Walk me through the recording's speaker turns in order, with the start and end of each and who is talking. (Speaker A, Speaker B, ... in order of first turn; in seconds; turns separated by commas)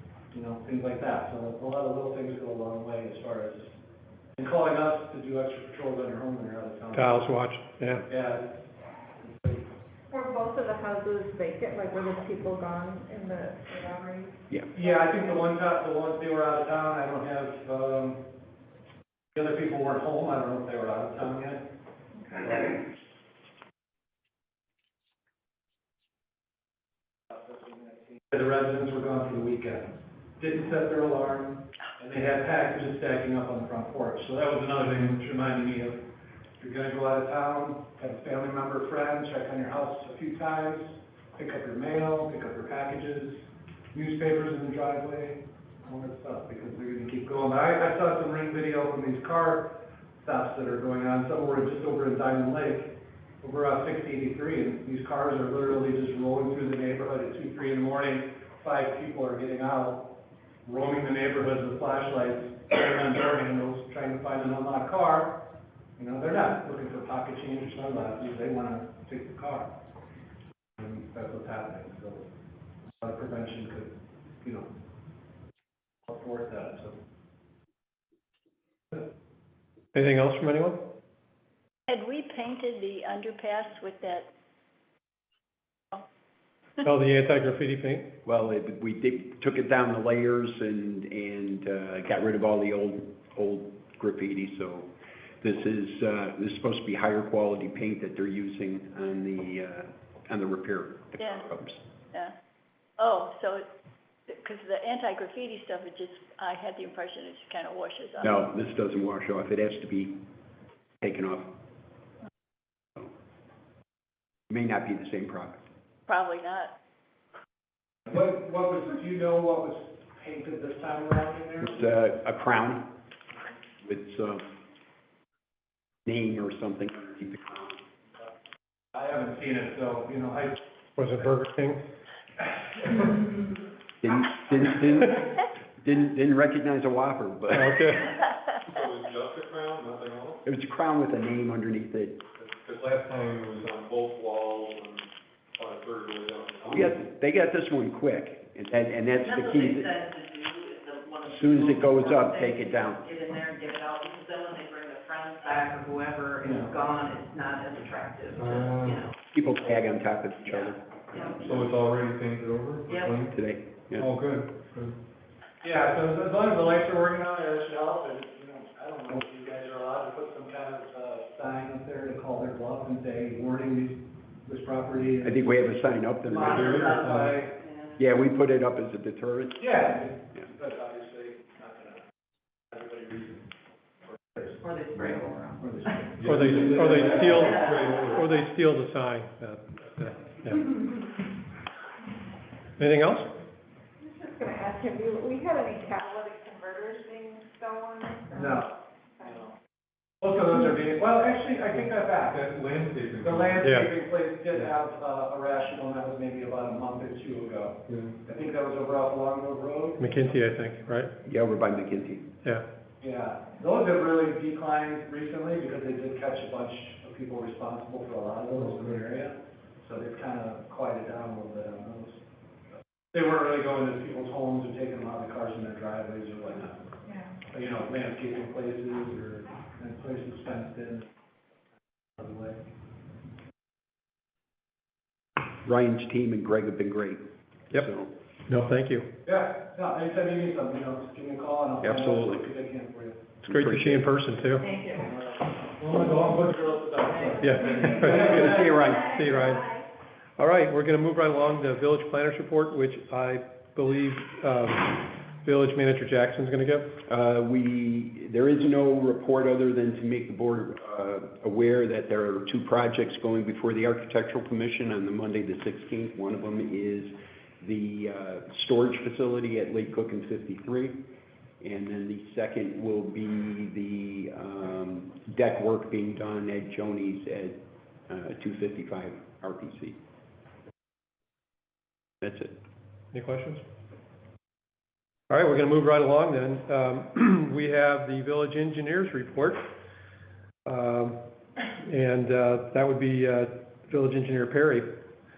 Speaker A: 0.3-3.8, Speaker A: 4.4-7.3, Speaker B: 6.9-8.0, Speaker A: 8.1-9.7, Speaker C: 10.1-15.3, Speaker A: 14.7-18.3, Speaker A: 19.3-21.6, Speaker A: 22.3-22.7, Speaker A: 27.3-36.0, Speaker A: 36.6-69.7, Speaker A: 70.8-72.3, Speaker A: 73.0-74.7, Speaker A: 76.1-77.0, Speaker B: 79.9-80.9, Speaker D: 81.9-84.3, Speaker B: 86.8-88.1, Speaker E: 88.2-94.9, Speaker E: 95.4-101.8, Speaker D: 101.2-101.5, Speaker D: 103.0-103.7, Speaker D: 104.3-108.3, Speaker E: 108.2-110.2, Speaker E: 111.0-111.5, Speaker E: 114.5-115.6, Speaker D: 116.1-116.7, Speaker A: 118.1-121.8, Speaker E: 121.6-122.9, Speaker E: 123.8-124.4, Speaker E: 126.0-127.8, Speaker A: 128.9-130.6, Speaker B: 131.0-131.8, Speaker A: 132.8-133.5, Speaker E: 134.0-138.0, Speaker B: 137.5-138.1, Speaker F: 138.6-140.4, Speaker E: 140.4-142.2, Speaker F: 142.4-146.9, Speaker E: 146.7-149.9, Speaker G: 149.2-159.1, Speaker E: 151.2-153.0, Speaker F: 158.3-159.1, Speaker E: 159.3-161.7, Speaker G: 160.5-161.6, Speaker F: 161.3-163.4, Speaker G: 162.9-163.2, Speaker E: 163.3-164.1, Speaker F: 164.0-164.9, Speaker A: 165.6-175.4, Speaker E: 175.2-177.0, Speaker F: 176.3-177.5, Speaker G: 176.3-178.0, Speaker A: 176.7-177.5, Speaker E: 178.0-179.7, Speaker A: 179.6-182.0, Speaker A: 182.7-183.4, Speaker A: 184.1-187.5, Speaker G: 184.4-186.2, Speaker F: 186.2-188.3, Speaker B: 186.2-190.7, Speaker G: 187.4-188.0, Speaker B: 192.8-193.3, Speaker C: 194.0-198.6, Speaker A: 198.3-198.7, Speaker C: 199.2-199.4, Speaker A: 200.2-210.4, Speaker F: 202.2-203.7, Speaker B: 203.6-203.9, Speaker F: 207.9-208.1, Speaker B: 210.0-211.1, Speaker E: 211.2-212.3, Speaker A: 213.0-222.2, Speaker A: 223.1-226.8, Speaker A: 227.5-231.1, Speaker A: 232.2-232.6, Speaker E: 235.6-237.2, Speaker E: 237.7-238.1, Speaker B: 238.5-239.1, Speaker A: 239.2-243.3, Speaker E: 241.8-242.4, Speaker B: 243.4-244.7, Speaker E: 243.4-244.1, Speaker A: 245.0-248.8, Speaker B: 247.4-249.7, Speaker E: 247.9-249.2, Speaker C: 248.3-249.0, Speaker B: 250.4-256.9, Speaker E: 257.1-271.1, Speaker E: 271.6-280.0, Speaker E: 282.2-282.6, Speaker B: 283.1-283.6, Speaker B: 285.3-289.6, Speaker B: 290.6-291.2, Speaker B: 291.8-294.9